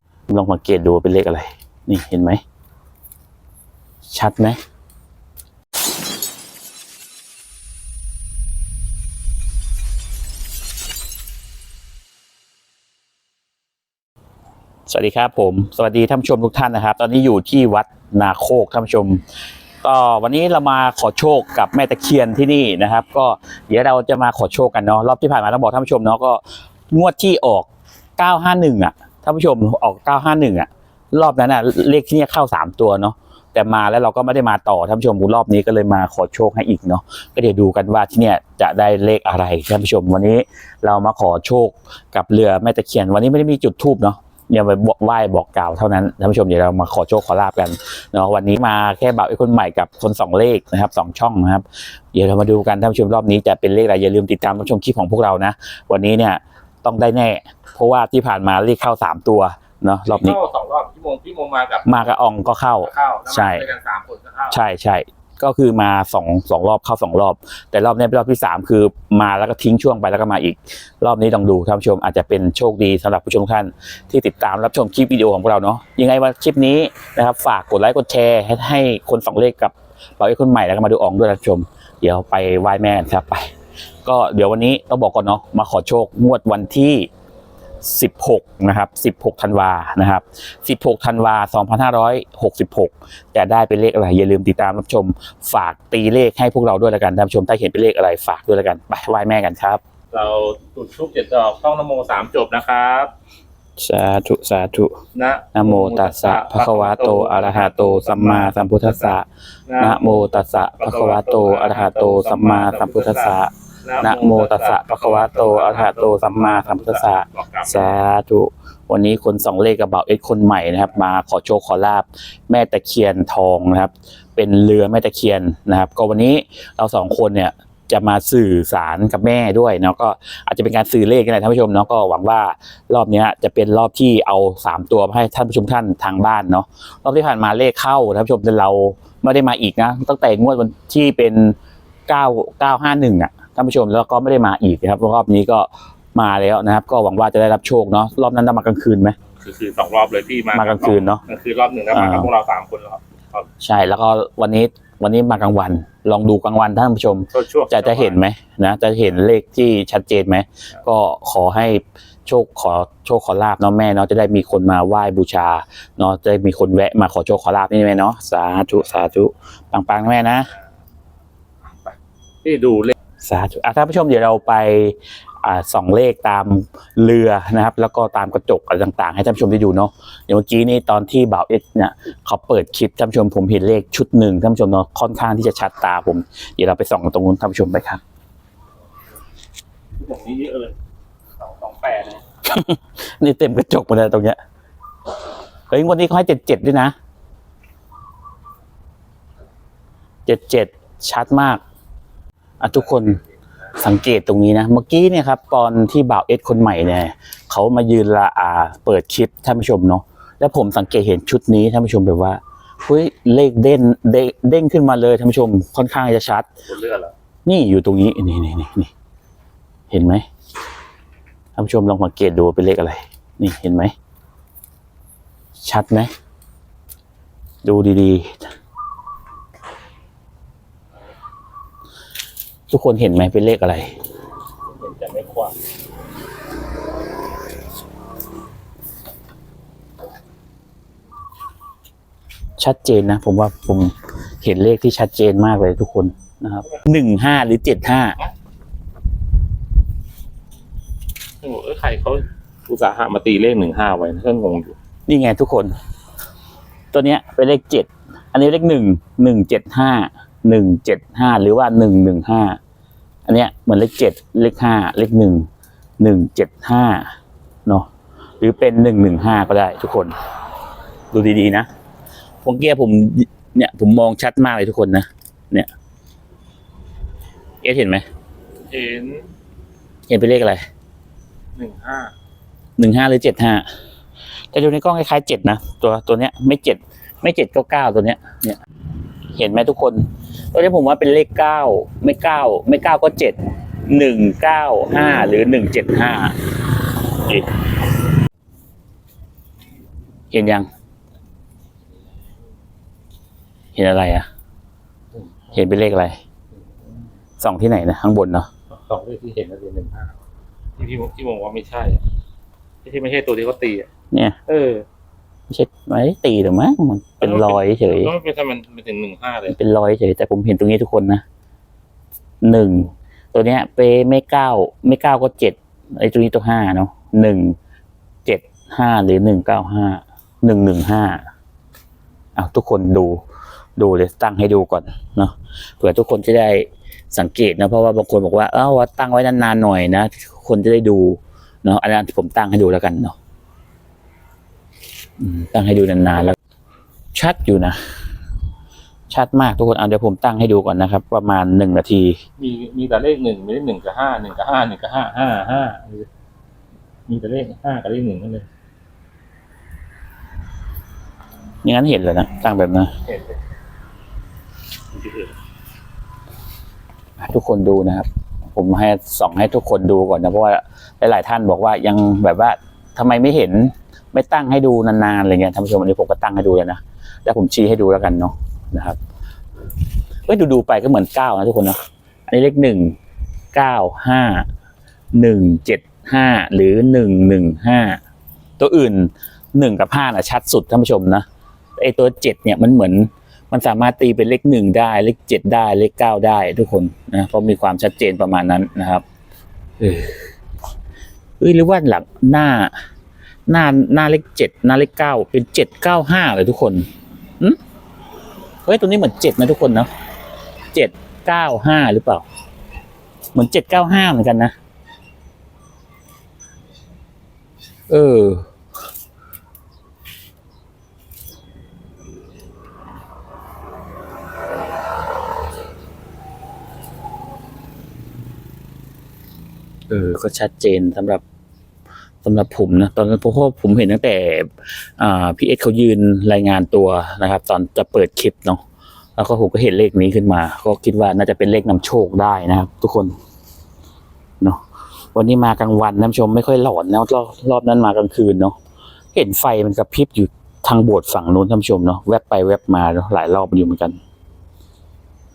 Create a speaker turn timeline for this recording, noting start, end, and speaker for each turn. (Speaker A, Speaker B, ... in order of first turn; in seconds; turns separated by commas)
Speaker A: 0.3-2.4, Speaker A: 4.1-4.6, Speaker A: 14.9-19.2, Speaker A: 19.8-60.4, Speaker B: 60.1-61.9, Speaker A: 61.8-63.7, Speaker B: 62.9-64.6, Speaker A: 64.5-83.5, Speaker A: 84.0-87.1, Speaker A: 87.8-99.8, Speaker B: 100.1-103.1, Speaker A: 103.8-105.0, Speaker B: 105.1-109.1, Speaker A: 105.5-141.6, Speaker B: 109.7-118.0, Speaker A: 142.1-149.2, Speaker B: 149.4-153.5, Speaker A: 150.5-151.2, Speaker A: 151.9-152.3, Speaker A: 153.6-170.5, Speaker B: 157.3-158.2, Speaker B: 171.8-172.9, Speaker A: 173.2-188.0, Speaker B: 190.0-190.8, Speaker B: 191.4-192.2, Speaker A: 192.4-194.4, Speaker A: 195.7-196.9, Speaker A: 200.2-201.6, Speaker A: 202.6-203.2, Speaker A: 203.7-216.5, Speaker B: 216.7-217.1, Speaker A: 217.4-218.9, Speaker A: 219.9-220.2, Speaker A: 221.6-223.9, Speaker A: 225.6-226.1, Speaker A: 227.6-228.4, Speaker A: 232.7-233.9, Speaker B: 234.7-235.6, Speaker A: 242.6-248.2, Speaker B: 251.4-254.8, Speaker A: 255.1-255.7, Speaker A: 256.9-262.6, Speaker A: 263.3-265.5, Speaker A: 266.0-267.1, Speaker A: 268.4-270.1, Speaker A: 271.1-271.7, Speaker A: 272.4-275.7, Speaker A: 277.6-278.1, Speaker B: 278.7-279.3, Speaker A: 280.1-280.6, Speaker B: 281.6-282.1, Speaker A: 282.8-283.7, Speaker A: 284.5-288.6, Speaker A: 289.4-296.4, Speaker A: 297.1-297.6, Speaker A: 300.3-300.7, Speaker A: 303.8-304.3, Speaker A: 305.5-306.2, Speaker A: 307.4-308.5, Speaker B: 308.7-310.1, Speaker B: 310.8-312.1, Speaker B: 312.8-313.9, Speaker A: 314.1-314.4, Speaker B: 314.5-314.9, Speaker A: 315.5-318.1, Speaker B: 317.2-319.6, Speaker A: 319.5-321.2, Speaker A: 322.4-327.6, Speaker A: 328.2-331.2, Speaker A: 332.4-333.2, Speaker A: 333.8-343.2, Speaker A: 345.2-346.4, Speaker A: 347.1-348.0, Speaker A: 349.1-352.2, Speaker B: 352.4-356.1, Speaker B: 357.1-358.5, Speaker A: 361.6-362.9, Speaker B: 363.1-363.4, Speaker B: 364.9-365.3, Speaker A: 367.2-379.0, Speaker A: 380.3-383.0, Speaker A: 383.5-384.5, Speaker A: 385.1-388.0, Speaker A: 388.6-391.2, Speaker A: 391.8-399.0, Speaker A: 399.8-400.3, Speaker A: 401.4-402.8, Speaker A: 403.5-406.9, Speaker A: 408.6-409.9, Speaker A: 410.7-412.2, Speaker A: 413.3-414.6, Speaker A: 417.9-418.5, Speaker A: 429.9-431.2, Speaker A: 432.2-438.6, Speaker A: 439.2-443.1, Speaker A: 445.1-448.6, Speaker A: 449.1-454.0